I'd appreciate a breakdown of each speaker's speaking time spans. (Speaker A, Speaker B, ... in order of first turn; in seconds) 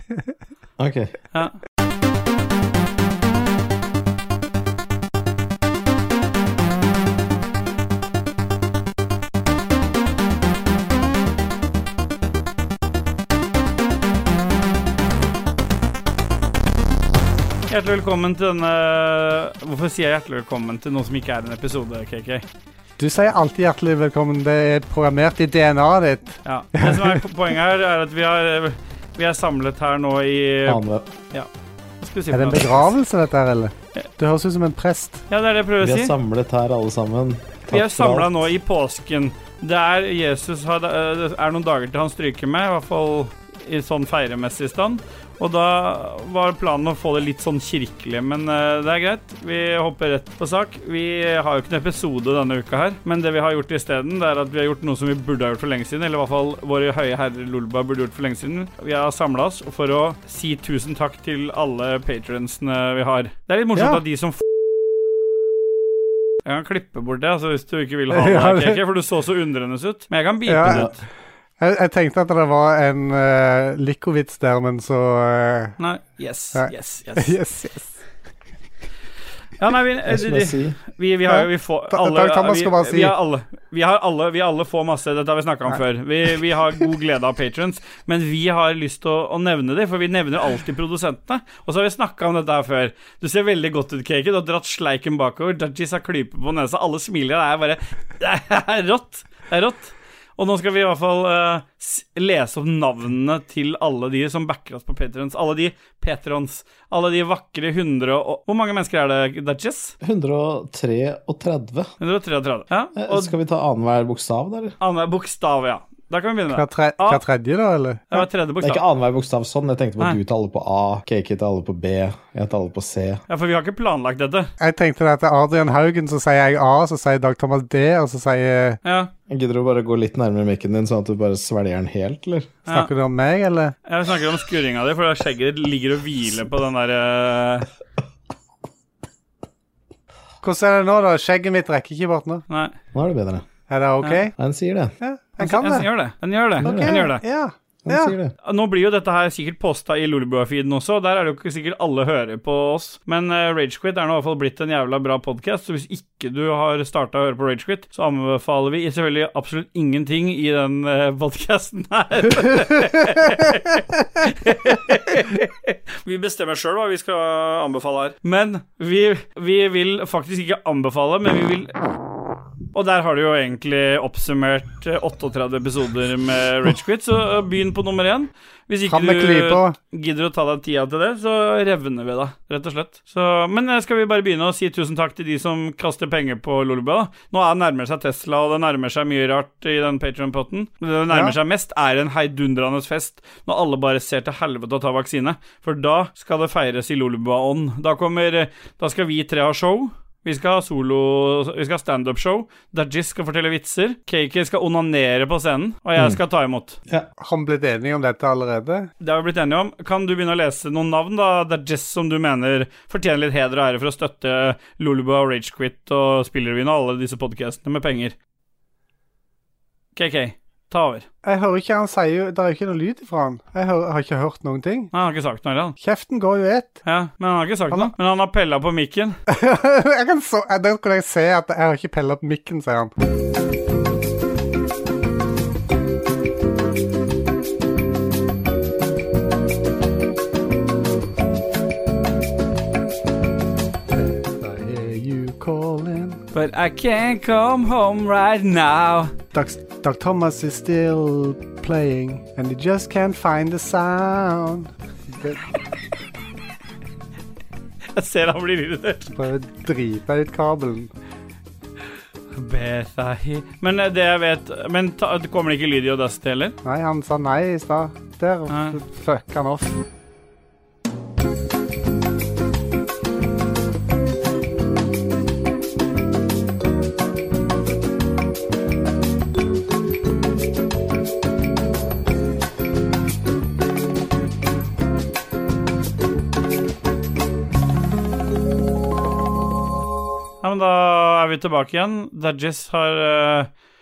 Speaker A: 0.8-1.2, 30.6-31.1, 35.8-38.3, 70.7-70.9, 80.1-80.8, 110.0-111.9, 112.9-114.7, 118.6-123.2, 129.3-132.6, 142.9-143.5, 144.4-144.9, 146.6-147.1, 147.8-148.3
Speaker B: 17.7-22.4, 26.4-31.5, 32.0-32.9, 35.3-36.1, 37.7-64.4, 66.4-71.0, 75.8-77.4, 79.6-109.9, 112.0-113.3, 114.8-117.2, 118.1-118.8, 123.3-124.5, 128.8-129.1, 133.9-137.7, 142.5-142.7, 145.4-147.2, 148.4-171.8, 172.7-206.8, 209.0-218.1, 219.9-221.1, 224.9-225.8, 226.8-229.2, 246.3-249.1, 257.9-259.1, 262.3-266.5, 268.5-268.8, 290.4-293.5
Speaker C: 23.0-27.2, 32.3-35.2, 63.8-64.0, 68.1-68.8, 70.5-70.9, 71.6-75.8, 76.5-78.0, 81.3-83.2, 116.5-118.3, 124.6-128.8, 132.7-133.8, 140.4-142.4, 143.7-144.3, 145.0-145.9, 146.6-148.2, 178.9-179.8, 191.1-191.4, 207.2-208.9, 221.2-224.9, 225.8-226.8, 229.3-232.9, 243.9-246.2, 249.3-255.4, 259.1-260.9, 266.6-269.8